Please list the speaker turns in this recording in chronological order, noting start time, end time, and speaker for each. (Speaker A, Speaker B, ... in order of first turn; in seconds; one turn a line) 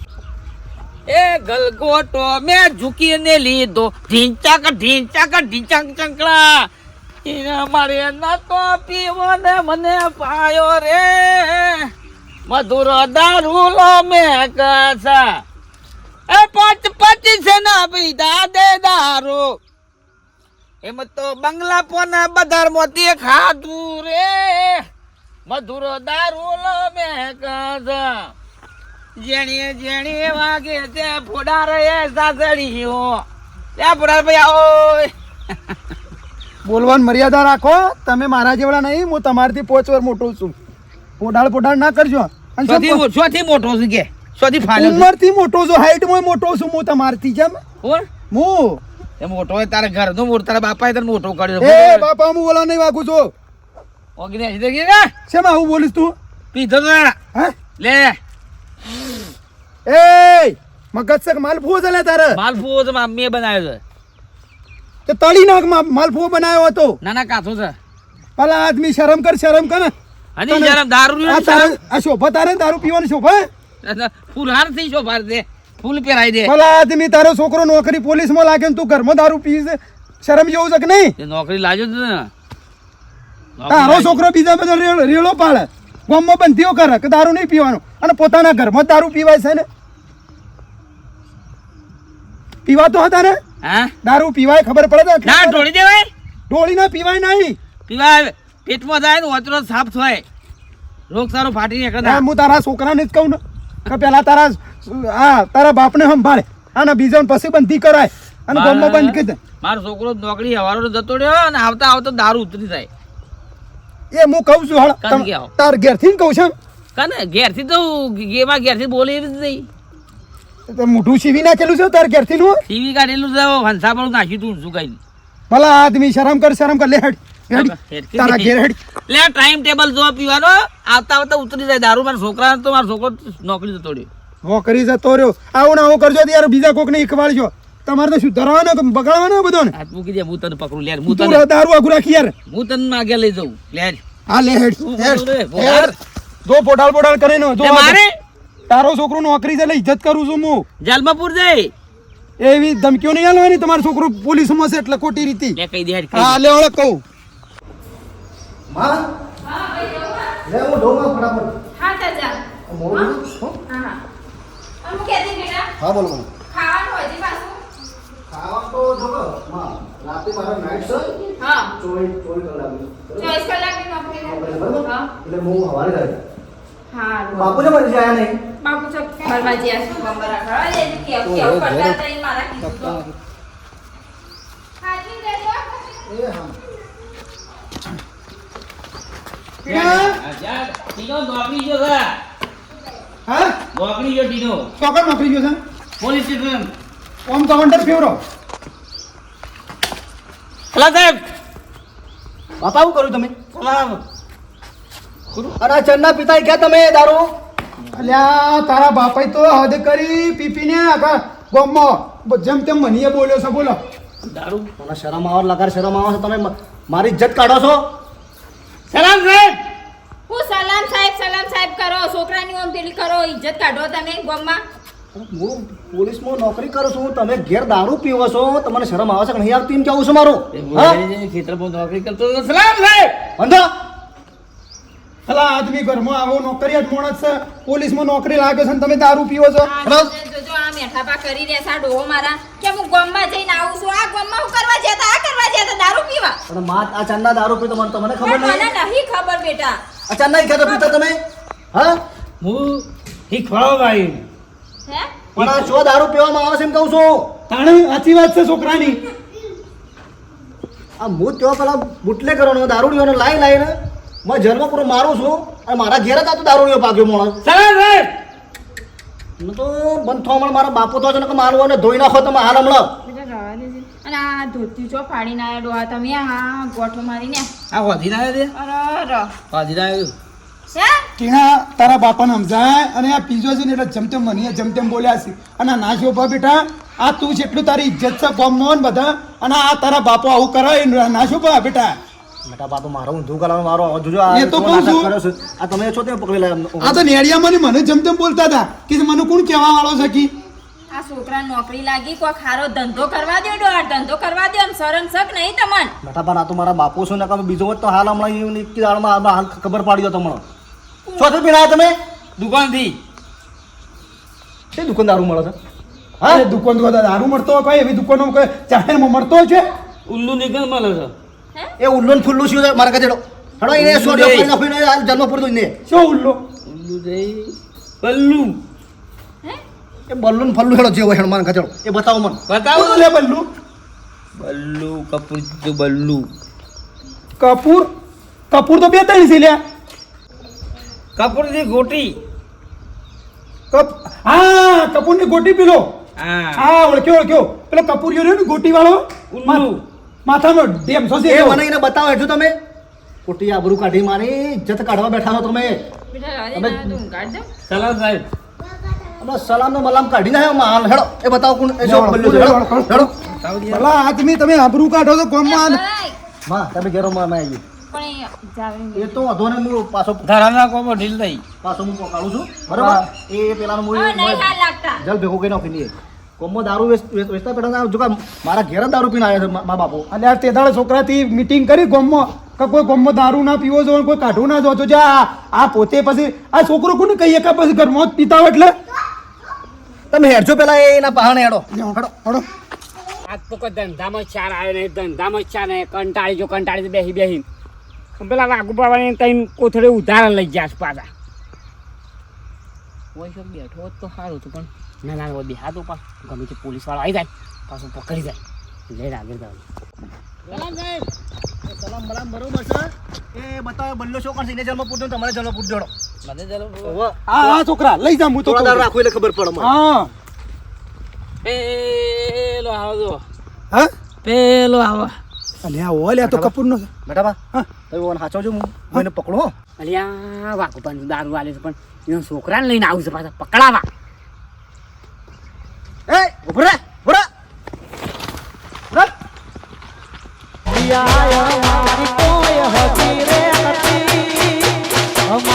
Speaker A: 1.1-6.7
Speaker A: 7.2-11.9
Speaker A: 12.5-15.4
Speaker A: 16.3-19.6
Speaker A: 20.8-24.8
Speaker A: 25.5-28.3
Speaker A: 29.2-33.2
Speaker A: 33.8-35.1
Speaker B: 36.6-40.5
Speaker B: 41.2-43.0
Speaker A: 42.7-45.1
Speaker B: 44.7-47.6
Speaker B: 48.3-48.8
Speaker A: 49.2-52.1
Speaker B: 51.6-53.3
Speaker A: 54.2-55.1
Speaker B: 55.3-56.1
Speaker A: 56.5-57.2
Speaker A: 57.8-58.2
Speaker B: 59.9-62.4
Speaker A: 62.3-63.8
Speaker B: 65.1-67.0
Speaker A: 67.0-67.8
Speaker B: 68.4-69.9
Speaker A: 70.4-71.8
Speaker B: 70.5-73.5
Speaker A: 73.8-76.5
Speaker B: 76.5-81.2
Speaker A: 81.2-82.3
Speaker A: 83.6-84.2
Speaker B: 83.7-89.7
Speaker B: 92.7-93.4
Speaker A: 93.6-93.9
Speaker B: 94.0-95.7
Speaker A: 95.2-96.1
Speaker B: 96.5-97.6
Speaker A: 97.9-100.2
Speaker A: 101.1-102.2
Speaker B: 102.0-109.4
Speaker A: 108.5-112.9
Speaker B: 114.1-116.5
Speaker A: 115.0-115.5
Speaker A: 117.0-119.7
Speaker B: 120.7-122.6
Speaker A: 122.7-125.0
Speaker B: 125.5-128.8
Speaker A: 127.5-128.5
Speaker A: 129.1-134.1
Speaker B: 134.4-139.7
Speaker A: 139.7-141.4
Speaker B: 141.1-142.3
Speaker A: 142.5-144.0
Speaker B: 144.3-148.0
Speaker A: 144.8-146.0
Speaker A: 147.6-148.2
Speaker B: 148.7-150.7
Speaker A: 150.8-151.7
Speaker B: 152.4-155.6
Speaker A: 155.6-156.4
Speaker B: 156.1-157.0
Speaker C: 158.7-159.0
Speaker D: 159.4-160.4
Speaker C: 160.5-161.6
Speaker D: 161.8-163.1
Speaker C: 162.7-163.6
Speaker D: 163.7-164.0
Speaker D: 164.8-165.7
Speaker C: 165.8-166.3
Speaker D: 166.5-167.6
Speaker C: 168.3-171.2
Speaker D: 171.4-171.7
Speaker C: 171.8-173.3
Speaker D: 173.2-175.1
Speaker C: 174.2-176.2
Speaker D: 176.9-177.7
Speaker C: 177.3-178.4
Speaker D: 178.6-183.0
Speaker C: 181.2-182.0
Speaker C: 182.6-183.1
Speaker D: 184.8-186.0
Speaker C: 186.1-186.6
Speaker B: 189.7-190.2
Speaker A: 189.7-192.1
Speaker B: 193.3-193.6
Speaker A: 193.7-194.7
Speaker B: 194.8-195.6
Speaker A: 196.0-196.7
Speaker B: 197.3-198.2
Speaker A: 200.7-201.2
Speaker C: 202.6-203.3
Speaker A: 203.5-204.0
Speaker C: 205.6-207.3
Speaker B: 207.9-213.8
Speaker A: 214.2-214.7
Speaker C: 214.8-217.8
Speaker A: 218.9-219.6
Speaker D: 220.3-224.6
Speaker C: 225.1-231.0
Speaker A: 230.5-233.3
Speaker C: 233.4-233.7
Speaker B: 235.3-239.7
Speaker D: 239.6-246.4
Speaker C: 239.8-240.1
Speaker C: 246.5-248.7
Speaker D: 248.2-249.8
Speaker C: 250.1-251.2
Speaker D: 250.6-250.9
Speaker C: 251.7-252.0
Speaker A: 252.4-254.2
Speaker D: 254.9-255.2
Speaker C: 255.4-257.3
Speaker A: 255.4-255.7
Speaker B: 257.5-259.0
Speaker C: 261.0-267.4
Speaker A: 267.4-268.1
Speaker C: 269.4-272.9
Speaker D: 273.1-277.5
Speaker A: 277.7-278.5
Speaker D: 278.5-279.3
Speaker A: 279.5-280.1
Speaker D: 280.7-281.0
Speaker B: 281.2-291.9
Speaker C: 292.5-297.0
Speaker B: 294.3-295.1
Speaker B: 296.8-300.3
Speaker D: 300.9-305.9
Speaker C: 306.0-310.4
Speaker C: 311.2-312.0
Speaker A: 312.4-313.0
Speaker C: 314.7-315.6
Speaker B: 316.3-319.6
Speaker A: 320.1-321.1
Speaker C: 321.8-325.7
Speaker A: 323.7-324.5
Speaker B: 325.9-326.4
Speaker A: 326.7-328.5
Speaker C: 330.1-332.4
Speaker A: 332.5-333.0
Speaker B: 332.7-333.5
Speaker A: 334.4-336.2
Speaker B: 337.4-337.9
Speaker B: 338.5-339.6
Speaker A: 341.2-342.2
Speaker B: 343.7-345.9
Speaker A: 346.2-346.7
Speaker B: 346.6-349.7
Speaker A: 349.3-349.8
Speaker B: 350.3-351.6
Speaker C: 351.3-352.6
Speaker C: 353.2-355.8
Speaker D: 356.1-357.5
Speaker C: 356.6-357.0
Speaker A: 357.7-358.2
Speaker C: 359.2-363.1
Speaker B: 361.8-363.1
Speaker A: 363.2-363.9
Speaker B: 363.7-365.8
Speaker D: 365.4-366.2
Speaker C: 366.5-367.6
Speaker D: 367.9-369.2
Speaker C: 368.9-370.3
Speaker A: 370.2-371.4
Speaker C: 371.6-380.1
Speaker D: 373.9-375.0
Speaker B: 380.1-388.7
Speaker C: 390.1-392.1
Speaker B: 391.7-392.5
Speaker E: 393.3-397.4
Speaker E: 398.2-401.1
Speaker E: 403.1-408.4
Speaker E: 408.9-409.6
Speaker C: 410.5-410.7
Speaker A: 410.5-411.1
Speaker C: 411.6-415.9
Speaker A: 416.2-417.0
Speaker C: 416.8-417.6
Speaker B: 417.3-418.9
Speaker C: 418.4-419.7
Speaker B: 419.6-420.1
Speaker A: 421.4-423.2
Speaker A: 424.2-425.1
Speaker B: 425.6-426.9
Speaker C: 426.2-426.5
Speaker C: 427.1-429.5
Speaker E: 429.8-433.9
Speaker C: 436.1-437.3